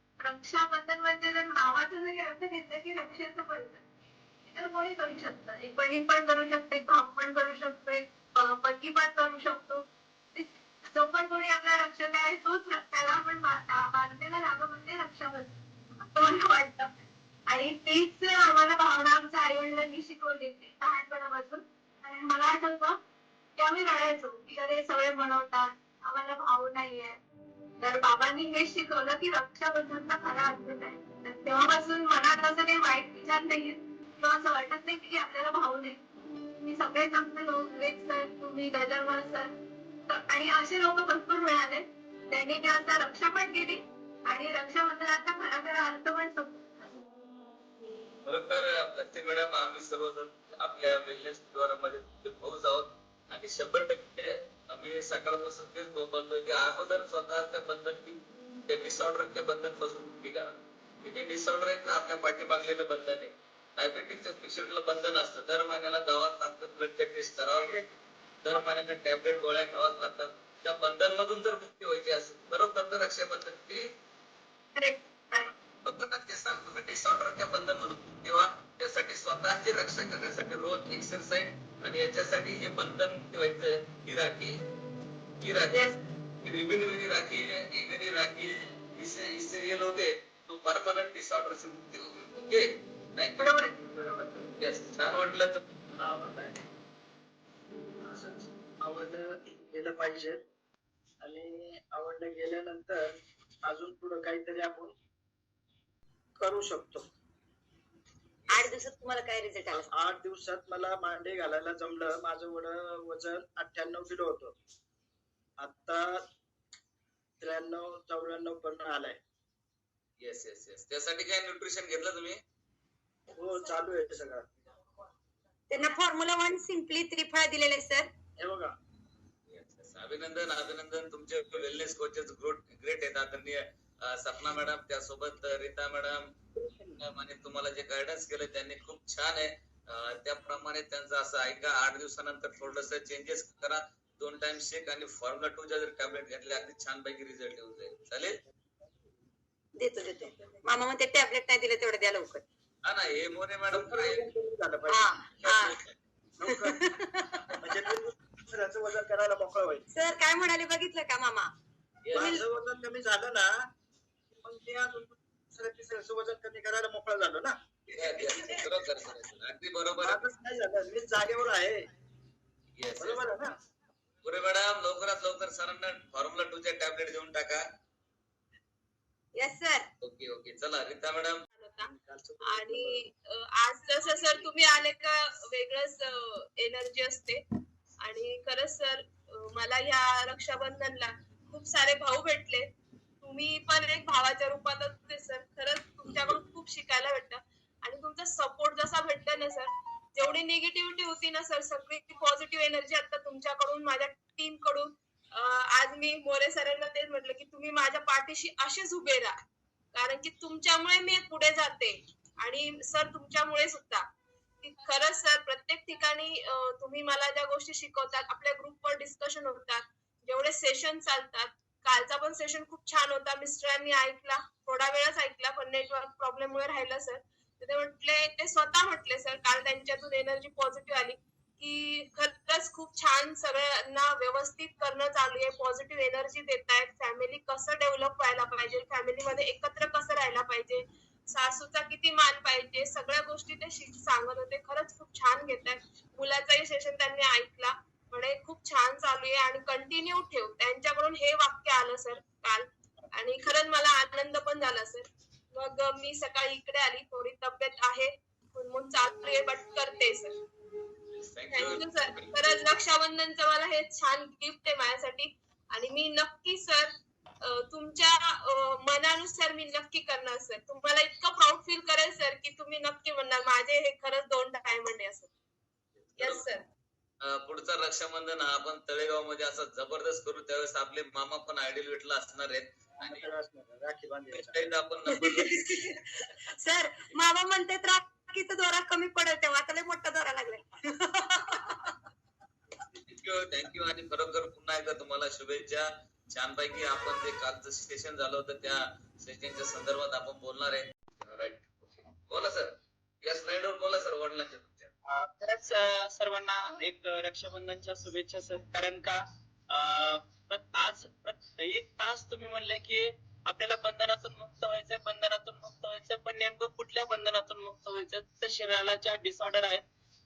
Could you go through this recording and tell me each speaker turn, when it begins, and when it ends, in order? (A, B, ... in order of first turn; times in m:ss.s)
0:00.2-0:03.8 A
0:04.5-0:15.5 A
0:16.0-0:16.9 A
0:17.5-0:23.0 A
0:23.6-0:27.2 A
0:27.8-0:39.5 A
0:40.1-0:46.9 A
0:48.2-1:07.8 B
1:08.4-1:13.9 B
1:14.8-1:15.5 A
1:15.8-1:24.6 B
1:25.4-1:25.9 B
1:26.4-1:33.5 B
1:33.4-1:34.4 A
1:34.4-1:36.6 B
1:38.0-1:40.4 C
1:41.2-1:43.0 C
1:43.6-1:44.9 C
1:46.4-1:47.0 C
1:48.5-1:49.9 D
1:49.7-1:54.5 C
1:55.6-1:56.2 C
1:57.4-1:59.2 C
2:00.2-2:02.4 B
2:03.4-2:04.5 C
2:05.7-2:08.1 D
2:08.4-2:08.7 C
2:09.5-2:16.2 B
2:16.6-2:16.9 C
2:17.0-2:28.4 B
2:29.8-2:32.4 D
2:32.8-2:34.3 B
2:33.7-2:35.1 C
2:34.9-2:35.8 D
2:35.4-2:35.8 B
2:36.4-2:36.8 C
2:36.5-2:37.6 D
2:37.6-2:39.9 C
2:39.9-2:41.5 D
2:42.0-2:42.4 B
2:42.1-2:42.4 D
2:42.1-2:43.5 C
2:44.4-2:47.5 C
2:47.9-2:50.2 B
2:48.1-2:48.6 C
2:50.0-2:51.8 C
2:52.8-2:53.2 B
2:53.0-2:53.5 C
2:54.2-2:57.6 B
2:59.4-2:59.9 D
3:00.0-3:01.4 B
3:01.6-3:07.4 E
3:01.8-3:03.0 C
3:08.0-3:12.7 E
3:13.2-3:29.3 E
3:29.9-3:34.1 E
3:34.6-4:20.4 E
4:21.1-4:22.7 B
4:21.5-4:35.3 E
4:36.0-4:36.4 B
4:36.2-4:36.6 E
4:37.2-4:43.3 B
4:43.0-4:44.7 C
4:44.3-4:45.5 B
4:45.1-4:46.0 D
4:46.6-4:51.9 D
4:53.1-5:01.7 B
5:02.3-5:04.9 B
5:05.1-5:19.8 F